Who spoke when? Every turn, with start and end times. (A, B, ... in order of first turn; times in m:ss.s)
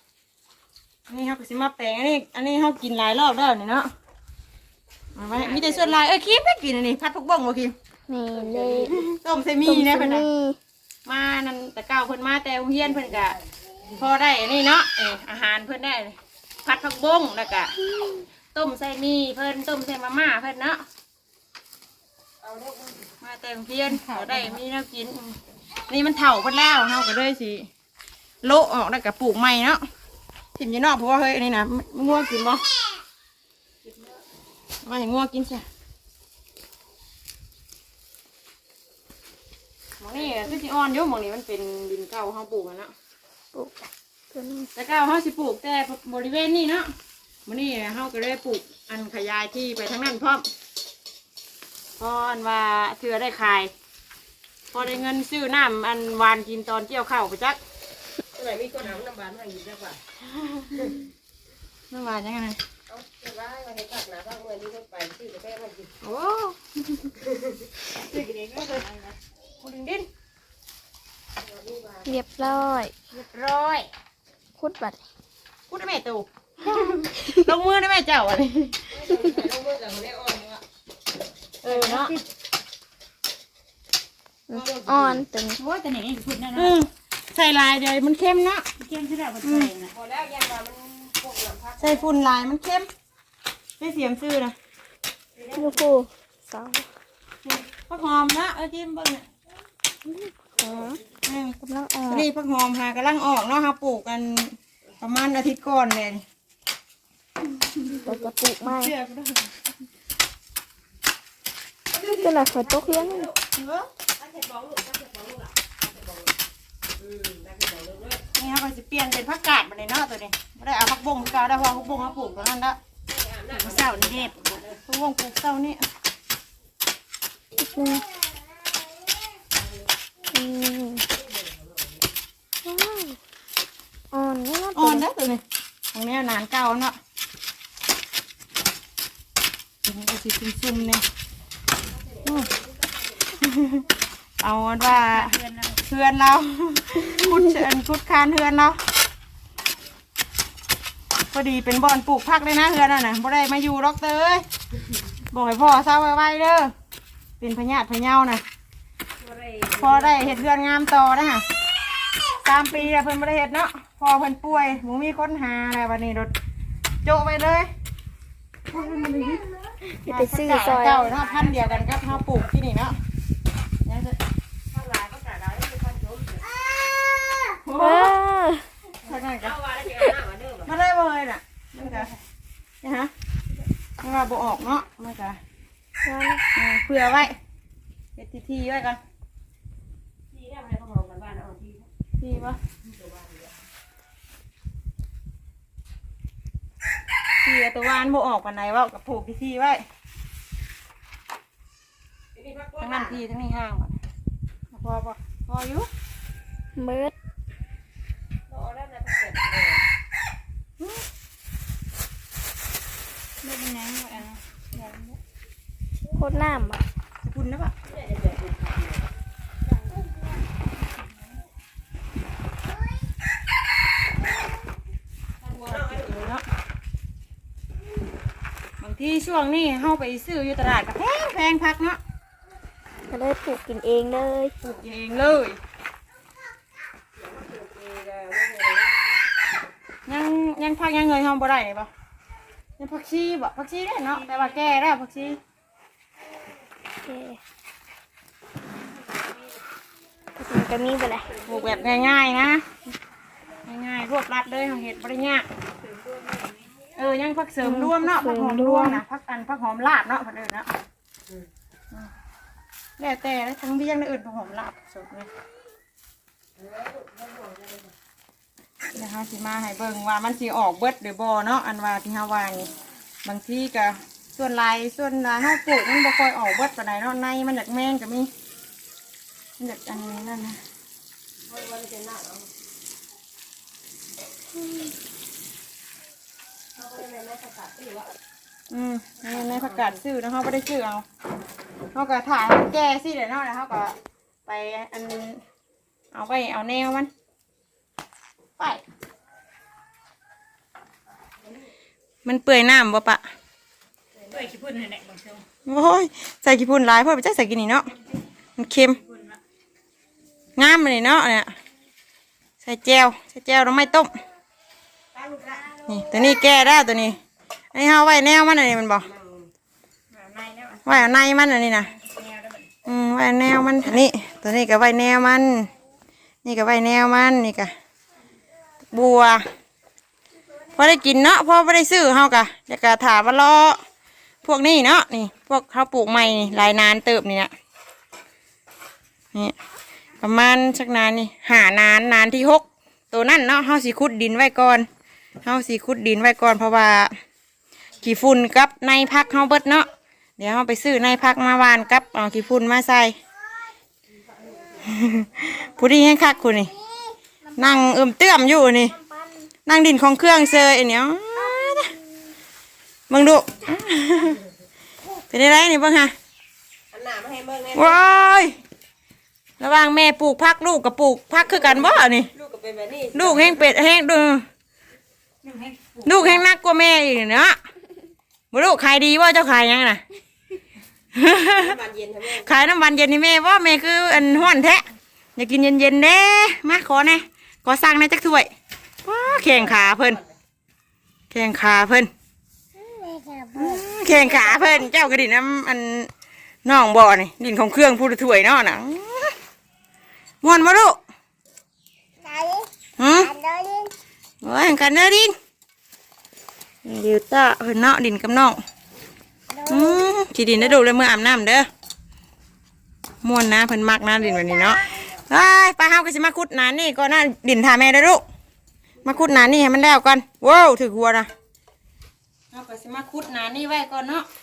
0:01.1-0:03.9 A
0:05.1-0:07.8 A
0:05.3-0:06.0 B
0:08.1-0:09.1 C
0:08.3-0:09.0 B
0:09.1-0:10.2 A
0:09.6-0:10.6 C
0:11.0-0:13.4 A
0:12.9-0:13.4 B
0:13.9-0:17.7 A
0:18.5-0:20.8 A
0:22.4-0:23.1 B
0:23.2-0:27.7 A
0:23.9-0:24.6 D
0:28.4-0:29.8 A
0:30.5-0:32.7 A
0:34.8-0:35.6 A
0:40.0-0:42.9 A
0:43.5-0:44.7 C
0:44.8-0:46.9 A
0:47.4-0:50.5 A
0:52.0-0:53.7 A
0:54.7-0:57.6 A
0:58.3-1:00.0 B
1:00.2-1:00.9 A
1:01.9-1:02.6 A
1:02.9-1:05.9 B
1:06.0-1:07.1 A
1:07.2-1:07.7 B
1:08.0-1:09.2 D
1:08.1-1:08.8 A
1:09.6-1:10.1 A
1:11.4-1:12.2 B
1:12.1-1:12.9 C
1:13.1-1:13.9 A
1:14.6-1:15.0 C
1:15.7-1:18.8 A
1:18.9-1:20.6 B
1:21.6-1:22.2 A
1:21.7-1:22.2 D
1:24.5-1:25.6 C
1:24.5-1:25.2 B
1:25.6-1:26.7 D
1:26.5-1:28.6 A
1:28.8-1:29.9 D
1:29.4-1:29.7 A
1:29.9-1:32.0 B
1:31.8-1:32.9 A
1:33.8-1:34.5 A
1:35.4-1:35.8 B
1:35.6-1:36.9 C
1:37.4-1:39.2 A
1:40.1-1:41.0 C
1:40.6-1:41.0 B
1:41.2-1:41.6 A
1:41.6-1:42.3 C
1:42.1-1:46.2 A
1:47.9-1:49.5 A
1:48.0-1:48.9 C
1:51.9-1:53.4 B
1:52.0-1:53.3 C
1:53.5-1:53.9 A
1:54.2-1:56.3 B
1:57.0-1:58.2 B
1:58.4-2:02.8 A
2:03.0-2:04.8 B
2:03.5-2:04.6 D
2:04.8-2:05.8 A
2:07.6-2:08.0 C
2:09.5-2:09.9 B
2:10.3-2:11.0 C
2:11.1-2:12.0 B
2:12.6-2:13.2 C
2:14.1-2:15.0 C
2:14.7-2:15.4 A
2:15.9-2:17.0 A
2:19.8-2:21.0 A
2:21.9-2:22.9 B
2:23.4-2:23.8 A
2:24.4-2:28.8 A
2:24.8-2:25.8 D
2:31.3-2:34.4 A
2:35.3-2:36.7 A
2:37.4-2:38.4 A
2:39.2-2:40.5 B
2:39.8-2:41.4 A
2:42.3-2:46.3 A
2:47.0-2:47.7 A
2:48.7-2:49.4 A
2:50.0-2:51.1 C
2:50.1-2:53.0 A
2:50.8-2:52.4 B
2:53.8-2:54.2 A
2:54.7-2:56.5 B
2:57.6-2:58.2 A
2:57.8-2:58.7 C
2:59.0-2:59.6 A
2:59.3-3:00.7 B
3:00.6-3:02.1 A
3:02.8-3:03.1 A
3:04.0-3:05.4 A
3:06.0-3:06.4 C
3:06.5-3:07.4 A
3:08.2-3:09.0 A
3:10.3-3:11.9 B
3:12.2-3:12.6 A
3:12.8-3:13.6 B
3:17.4-3:19.8 A
3:22.3-3:23.2 B
3:22.8-3:24.0 A
3:24.7-3:25.9 A
3:26.8-3:27.1 C
3:28.5-3:29.8 B
3:30.8-3:31.0 A
3:33.4-3:35.2 D
3:36.1-3:36.8 C
3:37.2-3:37.7 A
3:37.8-3:39.1 B
3:45.4-3:46.3 B
3:45.7-3:46.4 A
3:48.8-3:52.0 A
3:53.1-3:54.5 C
3:54.6-3:55.6 A
3:57.2-3:59.1 B
4:00.0-4:01.9 A
4:02.8-4:05.4 A
4:07.0-4:07.4 C
4:10.4-4:11.3 C
4:11.4-4:12.8 A
4:13.6-4:15.5 A
4:15.8-4:16.7 D
4:17.0-4:20.8 A
4:17.6-4:19.0 C
4:23.0-4:25.3 A
4:26.6-4:27.9 B
4:28.9-4:32.7 A
4:33.2-4:38.3 A
4:39.6-4:40.6 A
4:41.5-4:42.5 B
4:46.8-4:48.1 B
4:48.7-4:51.0 A
4:49.3-4:49.9 B
4:51.9-4:53.9 A
4:54.4-4:55.4 A
4:56.1-4:57.1 A
4:58.6-4:58.8 A
5:02.2-5:03.2 A
5:04.3-5:05.4 D
5:05.6-5:07.9 A
5:08.6-5:09.0 A
5:09.0-5:09.4 D
5:10.6-5:11.5 A
5:12.6-5:14.1 A
5:15.1-5:16.5 B
5:15.9-5:17.2 A
5:17.7-5:19.1 A
5:19.0-5:19.5 B
5:20.1-5:21.0 D
5:20.8-5:21.9 A
5:21.9-5:22.6 D
5:22.8-5:25.7 A
5:26.4-5:27.7 A
5:28.9-5:29.5 A
5:30.8-5:33.8 A
5:34.4-5:37.5 A
5:40.2-5:44.9 A
5:45.4-5:47.1 A
5:48.0-5:53.2 A
5:54.2-5:55.0 B
5:54.8-5:56.7 A
5:57.6-5:59.0 A
5:59.6-6:01.9 A
6:03.1-6:04.4 A
6:05.3-6:06.1 A
6:06.9-6:08.0 B
6:07.7-6:08.6 A
6:09.6-6:12.3 A
6:11.6-6:13.6 B
6:13.1-6:14.5 A
6:15.4-6:16.4 D
6:16.0-6:17.6 A
6:18.5-6:20.0 A
6:21.1-6:21.8 A
6:21.5-6:22.5 B
6:22.3-6:24.8 A
6:25.4-6:28.5 A
6:29.0-6:30.2 A
6:29.3-6:30.3 B
6:31.3-6:32.1 A
6:33.5-6:36.1 A
6:36.6-6:39.4 A
6:40.4-6:41.0 A
6:43.0-6:43.3 A
6:44.4-6:45.3 A
6:46.8-6:48.6 A
6:49.6-6:51.7 A
6:53.2-6:58.2 A
6:59.0-7:01.3 A
7:02.5-7:04.3 A